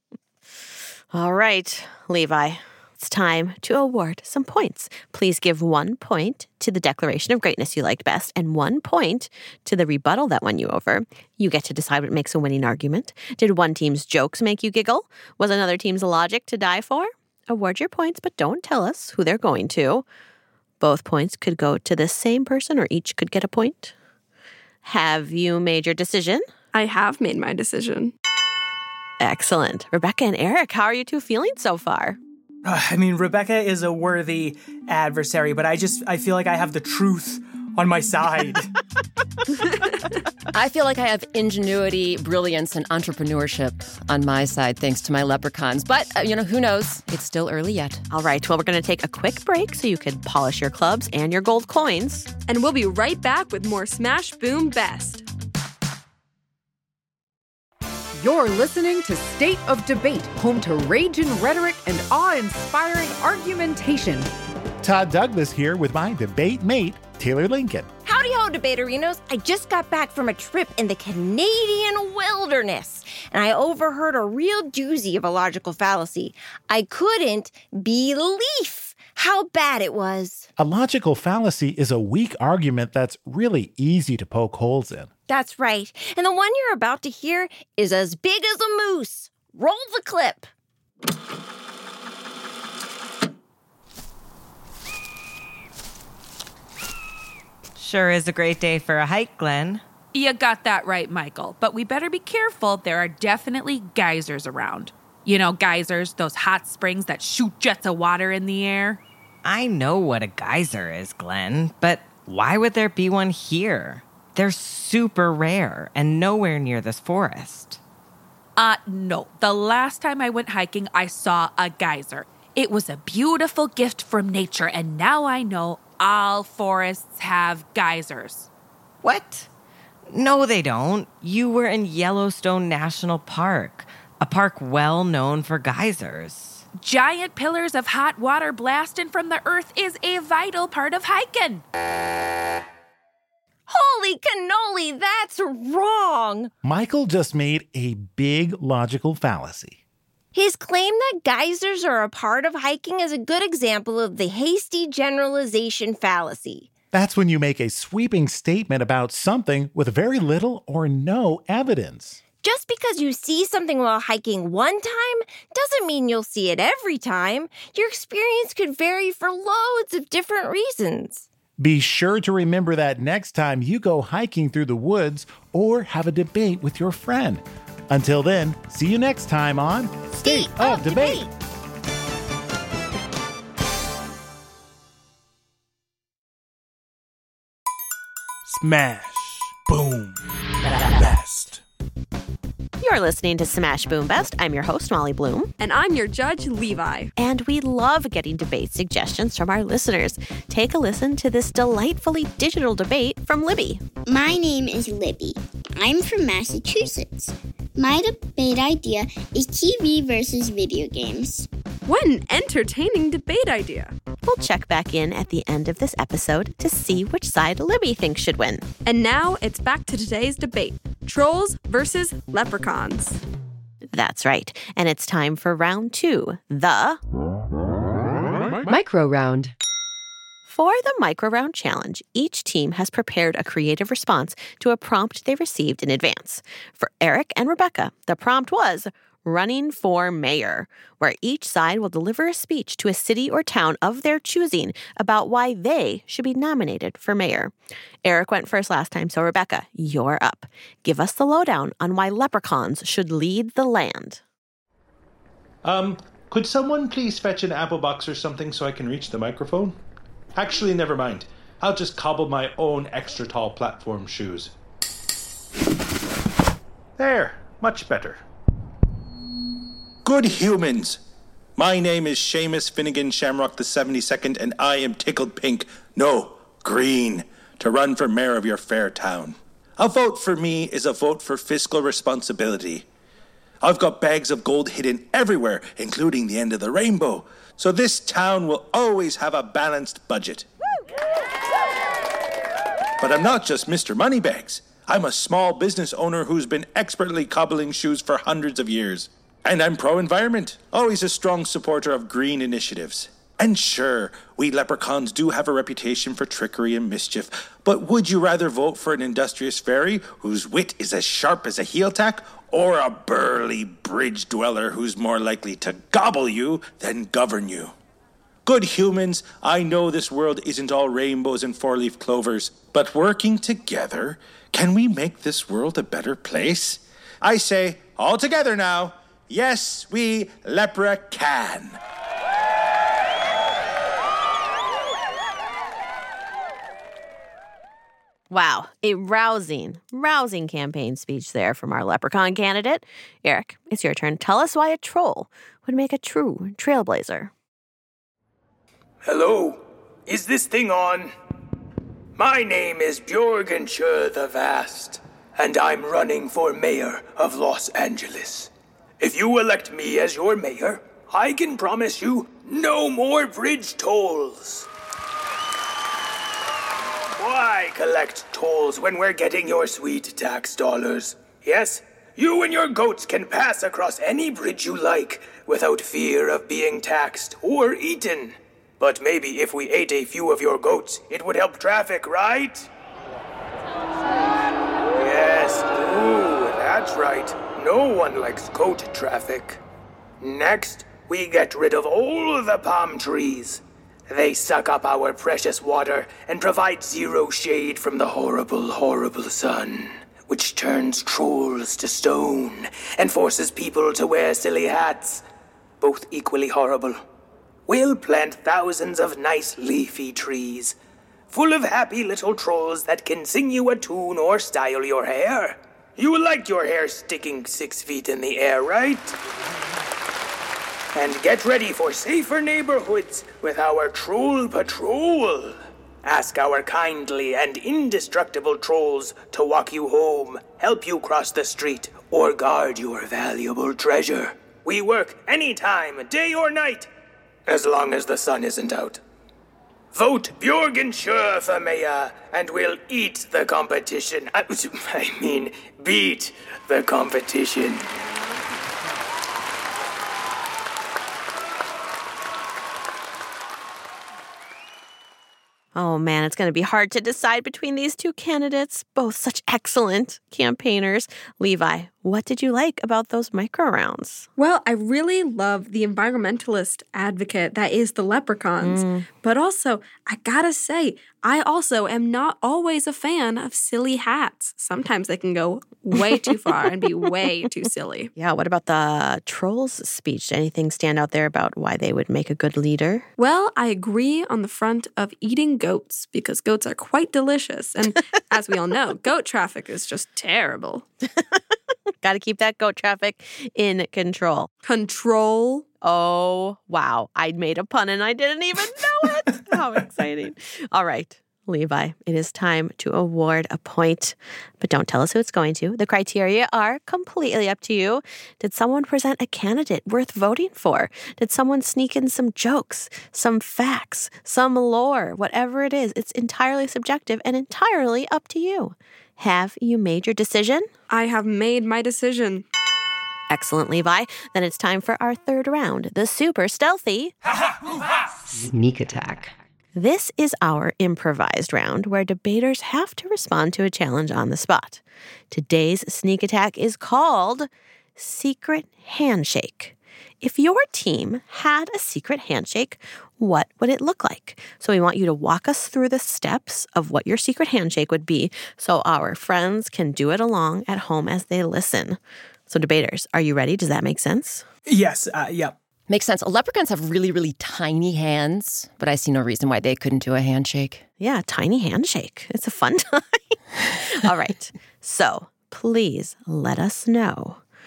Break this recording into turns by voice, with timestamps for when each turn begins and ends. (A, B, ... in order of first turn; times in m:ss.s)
0:01.1-0:20.0 A
0:20.8-0:23.9 A
0:24.8-0:26.4 A
0:26.7-0:28.1 B
0:29.2-0:32.2 A
0:32.6-0:38.7 C
0:40.5-0:48.0 D
0:48.1-0:52.3 A
0:52.5-0:55.2 B
0:58.2-1:04.3 E
1:04.8-1:07.9 F
1:08.0-1:20.5 G
1:20.6-1:25.1 F
1:25.3-1:30.5 G
1:37.8-1:39.8 H
1:40.1-1:49.0 I
1:49.4-1:57.8 H
1:58.6-2:08.5 I
2:09.0-2:09.5 H
2:10.1-2:16.6 H
2:16.8-2:21.6 I
2:23.7-2:26.5 G
2:26.6-2:29.8 F
2:30.3-2:36.7 G
2:36.9-2:42.2 F
2:42.4-2:51.3 G
2:51.6-3:01.3 F
3:00.2-3:01.3 G
3:08.9-3:10.1 J
3:10.8-3:11.5 J
3:12.8-3:15.5 A
3:15.6-3:17.1 B
3:17.2-3:23.8 A
3:24.1-3:31.5 K
3:31.8-3:33.9 B
3:34.2-3:38.6 A
3:38.8-3:43.2 B
3:43.9-3:47.0 A
3:48.6-3:49.5 D
3:50.5-4:14.2 A
4:15.6-4:19.8 L
4:20.3-4:24.5 L
4:27.0-4:28.2 L
4:30.0-4:31.0 L
4:31.6-4:42.8 L
4:43.6-4:50.4 L
4:53.0-5:17.7 L
5:18.4-5:31.8 L
5:38.3-5:47.3 A
5:49.0-5:51.1 J
5:52.2-6:04.7 J
6:07.1-6:22.7 J
6:24.9-6:29.6 J
6:30.2-6:45.2 J
6:45.8-6:47.0 J
6:47.7-6:50.8 J
6:51.3-6:59.2 J
7:00.9-7:16.9 J
7:17.5-7:19.0 J
7:19.9-7:27.9 J
7:35.7-7:44.3 A
7:44.4-7:58.1 B
7:48.6-7:49.0 A
7:58.2-8:03.1 A
8:03.2-8:10.8 B
8:12.0-8:14.5 A
8:14.6-8:15.7 B
8:15.8-8:40.7 A
8:40.9-8:42.4 B
8:43.3-8:47.1 A
8:48.4-8:49.3 E
8:49.7-9:12.0 A
9:12.5-9:14.4 A
9:14.7-9:15.5 C
9:15.9-9:20.8 D
9:21.0-9:27.4 A